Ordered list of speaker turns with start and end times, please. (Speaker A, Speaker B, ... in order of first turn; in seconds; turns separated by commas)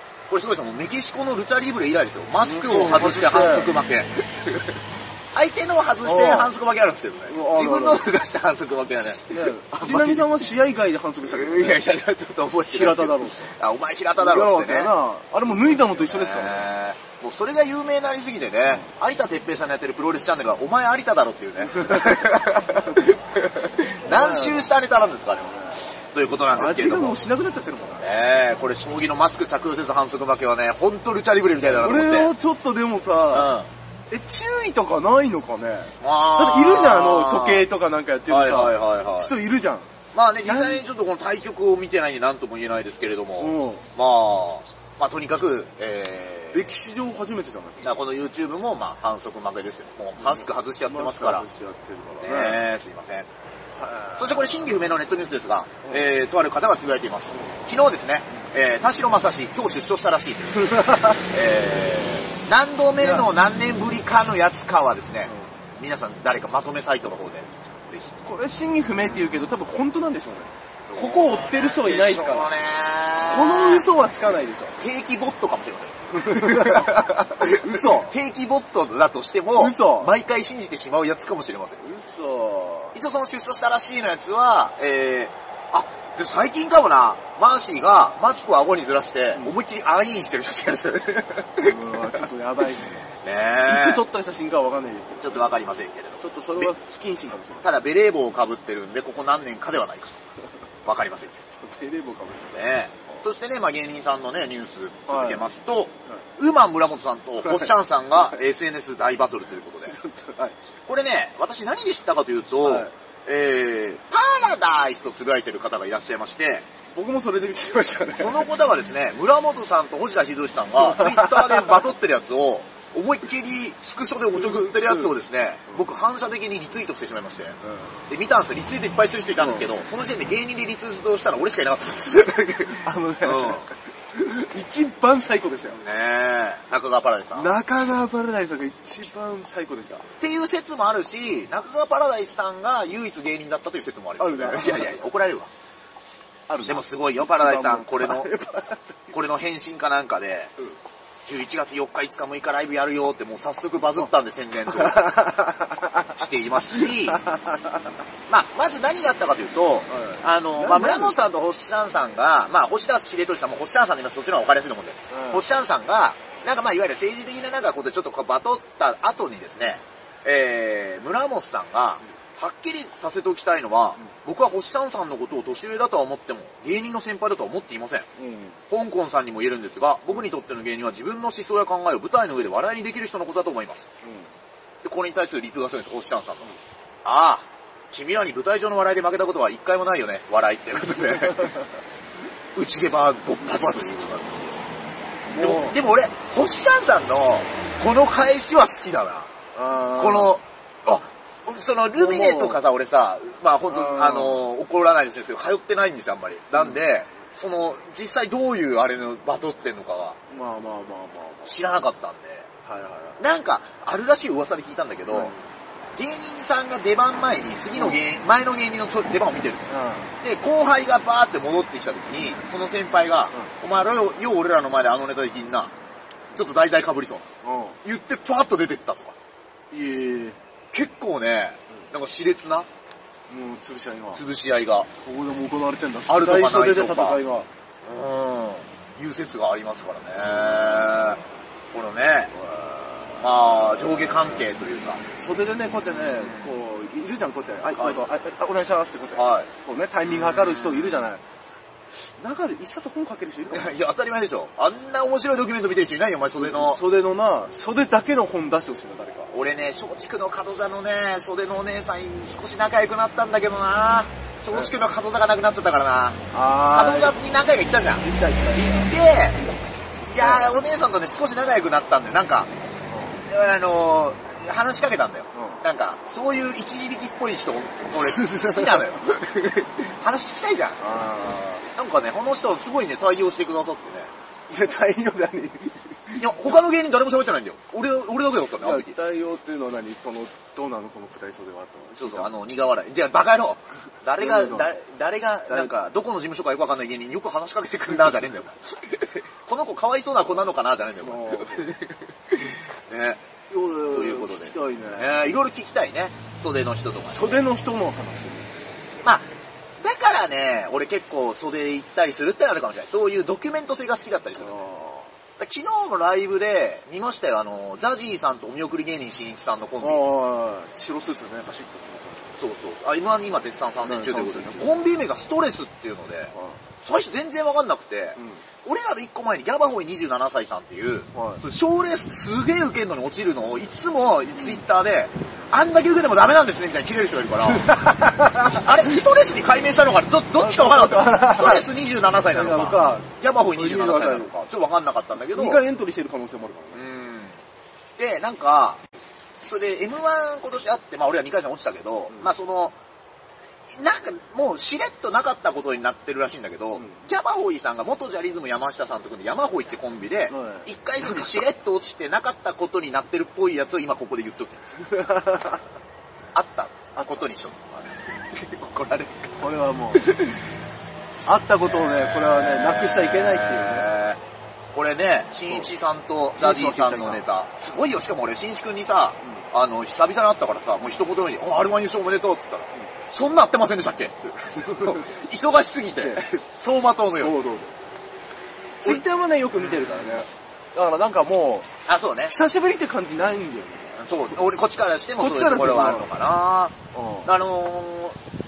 Speaker A: 0.3-4.5, Speaker B: 2.4-3.7, Speaker A: 5.3-10.3, Speaker B: 6.0-6.5, Speaker B: 7.3-8.0, Speaker B: 9.3-11.8, Speaker A: 11.3-14.9, Speaker B: 12.7-13.5, Speaker B: 14.2-16.7, Speaker A: 15.5-27.2, Speaker B: 21.7-22.3, Speaker B: 24.1-24.7, Speaker B: 26.5-28.0, Speaker A: 28.0-32.3, Speaker B: 31.7-33.5, Speaker A: 33.3-33.7, Speaker B: 34.1-39.9, Speaker A: 36.0-37.6, Speaker A: 38.3-39.3, Speaker A: 40.1-46.7, Speaker B: 40.4-40.8, Speaker B: 43.4-43.9, Speaker B: 46.5-47.9, Speaker A: 47.8-51.5, Speaker B: 50.2-52.6, Speaker A: 52.2-53.3, Speaker B: 53.7-54.9, Speaker A: 54.1-68.1, Speaker B: 57.3-57.6, Speaker B: 60.6-61.2, Speaker B: 63.0-63.3, Speaker B: 68.2-72.5, Speaker A: 70.9-73.9, Speaker B: 73.2-74.8, Speaker A: 74.8-81.8, Speaker B: 76.1-78.1, Speaker B: 79.6-80.1, Speaker B: 81.8-83.0, Speaker A: 82.9-91.7, Speaker B: 91.6-93.0, Speaker A: 93.2-94.0, Speaker B: 93.7-95.5, Speaker A: 95.2-96.7, Speaker B: 96.2-97.7, Speaker A: 97.6-100.2, Speaker A: 100.8-101.4, Speaker B: 101.6-102.5, Speaker A: 102.5-110.0, Speaker B: 105.1-105.5, Speaker B: 109.9-110.5, Speaker A: 110.8-116.7, Speaker B: 112.6-112.9, Speaker B: 116.9-118.5, Speaker A: 118.1-133.7, Speaker B: 120.8-121.8, Speaker B: 124.3-125.1, Speaker B: 127.7-127.9, Speaker B: 129.4-129.7, Speaker B: 132.8-135.8, Speaker A: 135.7-137.5, Speaker B: 137.3-140.0, Speaker A: 140.2-145.5, Speaker B: 144.2-145.1, Speaker B: 146.5-149.1, Speaker A: 146.7-148.3, Speaker A: 149.1-150.5, Speaker A: 151.2-155.2, Speaker B: 154.7-157.9, Speaker A: 156.1-157.2, Speaker A: 158.3-178.1, Speaker B: 159.9-161.2, Speaker B: 165.1-165.4, Speaker B: 178.2-178.6, Speaker A: 178.7-183.9, Speaker B: 184.0-184.3, Speaker A: 184.8-186.5, Speaker A: 187.0-191.5, Speaker A: 192.5-194.6, Speaker B: 193.5-193.9, Speaker B: 195.3-195.8, Speaker A: 195.3-199.3, Speaker B: 199.5-200.4, Speaker A: 199.9-210.2, Speaker B: 202.0-202.6, Speaker B: 203.7-204.4, Speaker B: 210.3-211.6, Speaker A: 211.4-212.5, Speaker B: 212.6-213.2, Speaker A: 213.2-215.3, Speaker B: 215.1-215.4, Speaker A: 216.0-219.7, Speaker B: 217.7-218.0, Speaker B: 219.7-220.1, Speaker A: 220.2-225.7, Speaker A: 226.3-227.3, Speaker B: 227.4-227.8, Speaker A: 227.8-229.2, Speaker B: 229.7-230.4, Speaker A: 230.7-232.7, Speaker B: 233.3-234.2, Speaker A: 234.1-234.9, Speaker B: 235.0-237.5, Speaker A: 236.1-237.2, Speaker A: 237.8-241.2, Speaker B: 240.2-241.1, Speaker A: 241.7-242.3, Speaker B: 242.3-244.5, Speaker A: 243.2-245.0, Speaker B: 245.2-251.2, Speaker A: 245.9-246.5, Speaker A: 249.1-249.5, Speaker A: 250.0-251.1, Speaker B: 252.0-253.7, Speaker A: 253.5-256.8, Speaker B: 256.4-259.3, Speaker A: 259.3-266.2, Speaker B: 266.3-267.2, Speaker A: 266.7-269.4, Speaker B: 268.0-268.9, Speaker A: 270.0-272.5, Speaker B: 270.2-270.6, Speaker B: 272.9-273.2, Speaker A: 273.2-280.9, Speaker B: 275.3-275.6, Speaker B: 278.2-278.7, Speaker B: 280.8-281.6, Speaker A: 281.6-284.1, Speaker B: 284.5-286.2, Speaker A: 286.2-289.0, Speaker B: 288.6-292.3, Speaker A: 291.9-303.2, Speaker B: 294.2-294.7, Speaker B: 295.5-295.8, Speaker B: 301.0-301.8, Speaker B: 303.5-305.3, Speaker A: 303.8-307.4, Speaker B: 307.1-308.7, Speaker A: 309.8-314.6, Speaker B: 314.4-315.1, Speaker A: 315.4-320.0, Speaker B: 319.8-322.4, Speaker A: 322.4-345.6, Speaker B: 323.8-324.9, Speaker B: 326.3-326.6, Speaker B: 328.2-328.4, Speaker B: 331.1-331.4, Speaker B: 337.7-338.5, Speaker B: 340.3-341.7, Speaker B: 342.3-344.4, Speaker B: 345.1-346.8, Speaker A: 346.7-347.4, Speaker A: 348.0-348.8, Speaker A: 349.4-352.7, Speaker A: 353.7-364.8, Speaker B: 356.7-357.0, Speaker B: 360.3-360.7, Speaker B: 364.8-365.6, Speaker A: 366.3-369.4, Speaker B: 366.9-367.3, Speaker B: 369.4-370.1, Speaker A: 369.9-370.4, Speaker B: 371.2-373.9, Speaker A: 371.6-374.2, Speaker A: 374.7-387.4, Speaker B: 376.4-377.2, Speaker B: 386.0-386.4, Speaker B: 387.1-387.7, Speaker B: 388.8-391.7, Speaker A: 389.5-390.2, Speaker A: 391.9-392.4, Speaker B: 392.3-394.0, Speaker A: 393.9-398.2, Speaker B: 395.2-396.1, Speaker B: 396.9-397.3